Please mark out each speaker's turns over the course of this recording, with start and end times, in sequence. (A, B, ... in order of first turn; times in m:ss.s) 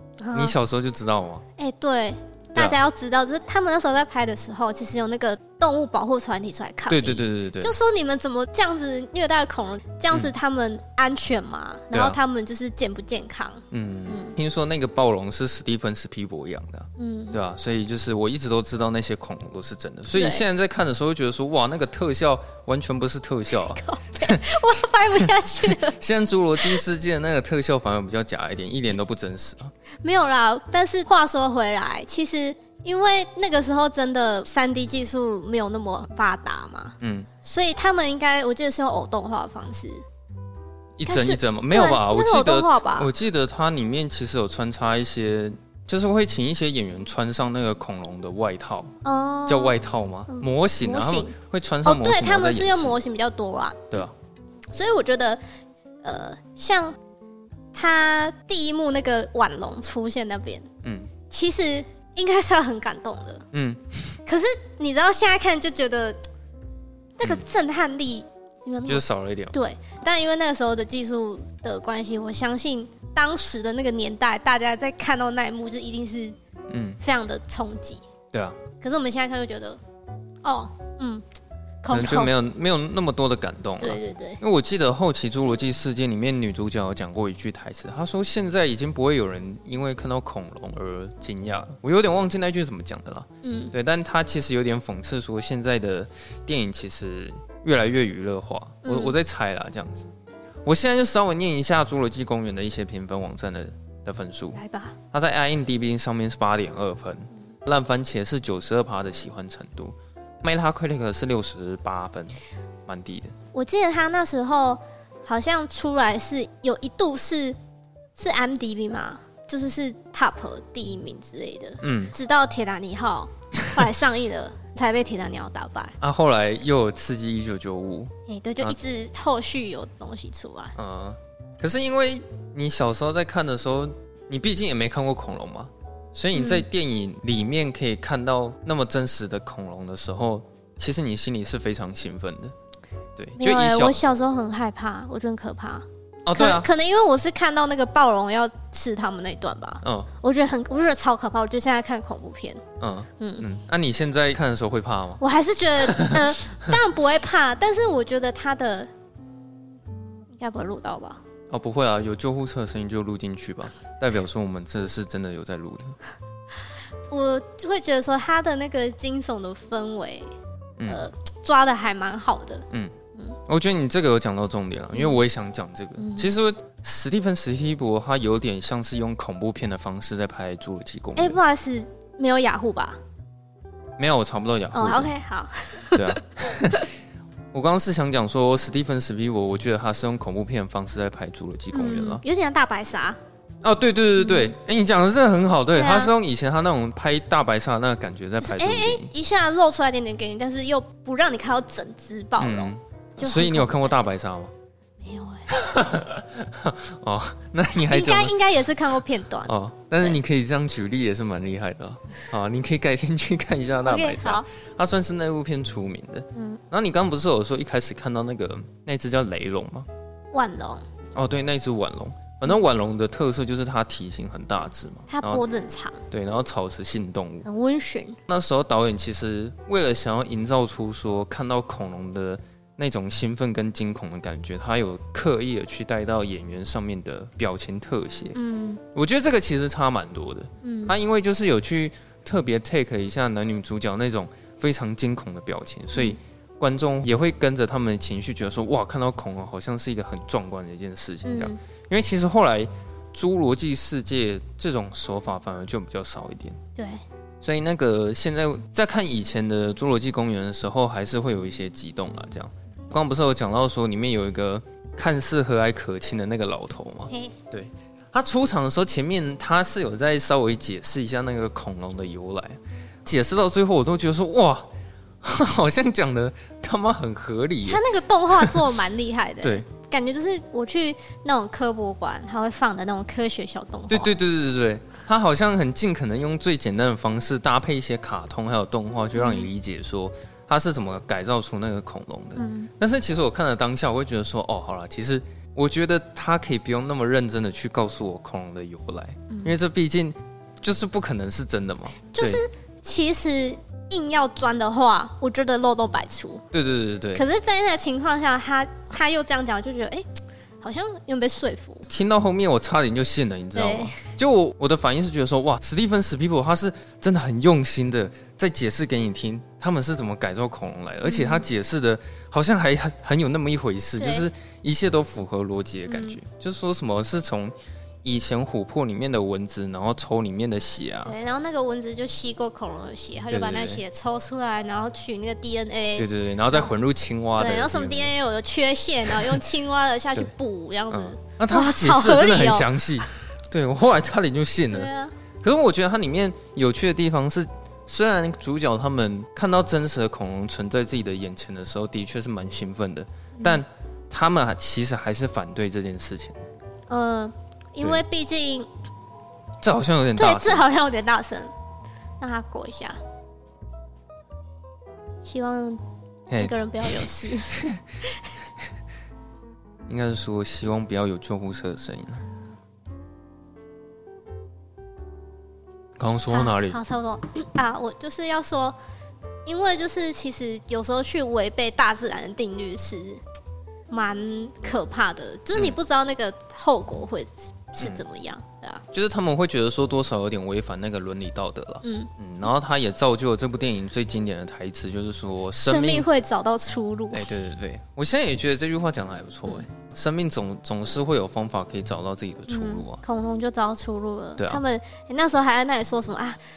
0:00.2-0:00.5 A
0:00.3-0:01.4 B
0:01.6-0:14.4 A
0:06.9-0:07.7 B
0:11.9-0:12.2 B
0:13.7-0:29.7 B
0:17.0-0:17.4 A
0:20.1-0:20.4 A
0:23.6-0:26.0 A
0:30.0-0:40.0 A
0:37.0-0:37.3 B
0:41.0-0:48.9 B
0:41.0-0:43.1 A
0:49.0-0:54.1 A
0:49.5-0:53.0 B
0:54.7-0:55.4 A
0:56.0-0:57.0 A
0:57.7-1:00.7 A
1:00.8-1:01.1 B
1:01.3-1:03.4 A
1:03.5-1:04.2 B
1:04.2-1:06.2 A
1:07.2-1:16.4 A
1:08.8-1:09.6 B
1:16.7-1:17.0 B
1:17.0-1:18.0 A
1:18.3-1:18.6 B
1:18.8-1:19.8 A
1:20.4-1:21.2 A
1:21.8-1:22.3 A
1:21.9-1:40.1 B
1:23.8-1:24.4 A
1:33.4-1:33.7 A
1:38.8-1:39.2 A
1:40.6-1:44.6 B
1:44.5-1:45.0 A
1:45.1-1:53.3 B
1:53.5-1:57.6 A
1:58.1-2:06.0 A
2:01.8-2:02.1 B
2:06.0-2:08.8 B
2:08.3-2:10.8 A
2:10.8-2:22.5 B
2:16.3-2:16.6 A
2:23.2-2:24.0 B
2:23.4-2:32.6 A
2:26.2-2:26.7 B
2:29.8-2:30.1 B
2:32.8-2:35.2 B
2:33.2-2:33.4 A
2:35.2-2:38.9 A
2:35.8-2:36.3 B
2:40.4-2:41.2 A
2:41.5-2:46.0 B
2:47.1-2:50.3 A
2:50.8-2:51.0 B
2:50.9-2:53.4 A
2:53.5-3:01.4 B
2:56.0-2:56.3 A
3:01.2-3:03.0 A
3:04.0-3:05.1 B
3:04.7-3:06.8 A
3:05.9-3:06.9 B
3:07.5-3:12.2 B
3:11.7-3:13.2 A
3:13.6-3:19.1 B
3:14.2-3:14.5 A
3:15.7-3:16.1 A
3:18.4-3:24.0 A
3:22.4-3:24.5 B
3:25.0-3:25.9 A
3:25.5-3:28.4 B
3:27.9-3:30.2 A
3:29.5-3:39.9 B
3:33.8-3:34.5 A
3:36.3-3:36.6 A
3:40.3-3:40.8 A
3:41.1-3:45.4 B
3:45.1-3:46.0 A
3:46.1-3:47.5 B
3:47.4-3:48.2 A
3:48.3-3:58.4 B
3:58.3-3:58.8 A
3:58.9-4:16.6 B
4:00.6-4:01.0 A
4:11.2-4:11.6 A
4:16.8-4:17.0 A
4:17.4-4:34.7 B
4:27.1-4:27.3 A
4:35.2-4:38.7 B
4:37.6-4:44.1 A
4:43.9-5:02.4 B
4:49.2-4:49.5 A
4:52.4-4:52.7 A
4:59.3-4:59.5 A
5:02.1-5:06.4 A
5:06.5-5:07.2 B
5:07.1-5:10.0 A
5:10.6-5:11.8 A
5:11.9-5:31.1 B
5:13.5-5:14.0 A
5:21.0-5:21.4 A
5:24.0-5:24.3 A
5:25.9-5:26.2 A
5:31.0-5:36.7 A
5:33.3-5:33.8 B
5:36.0-5:38.1 B
5:37.4-5:42.7 A
5:39.1-5:39.4 B
5:40.9-5:56.4 B
5:44.7-5:45.1 A
5:53.4-5:53.6 A
5:56.9-5:58.7 A
5:59.6-6:00.6 B
6:00.2-6:01.5 A
6:02.2-6:03.0 A
6:05.2-6:05.8 A
6:06.3-6:07.8 B
6:06.4-6:08.3 A
6:09.9-6:12.2 B
6:16.0-6:16.8 B
6:16.3-6:18.8 A
6:19.4-6:23.2 A
6:23.9-6:28.8 A
6:28.9-6:36.1 B
6:31.8-6:32.1 A
6:35.6-6:37.2 A
6:37.1-6:43.0 B
6:42.5-6:46.4 A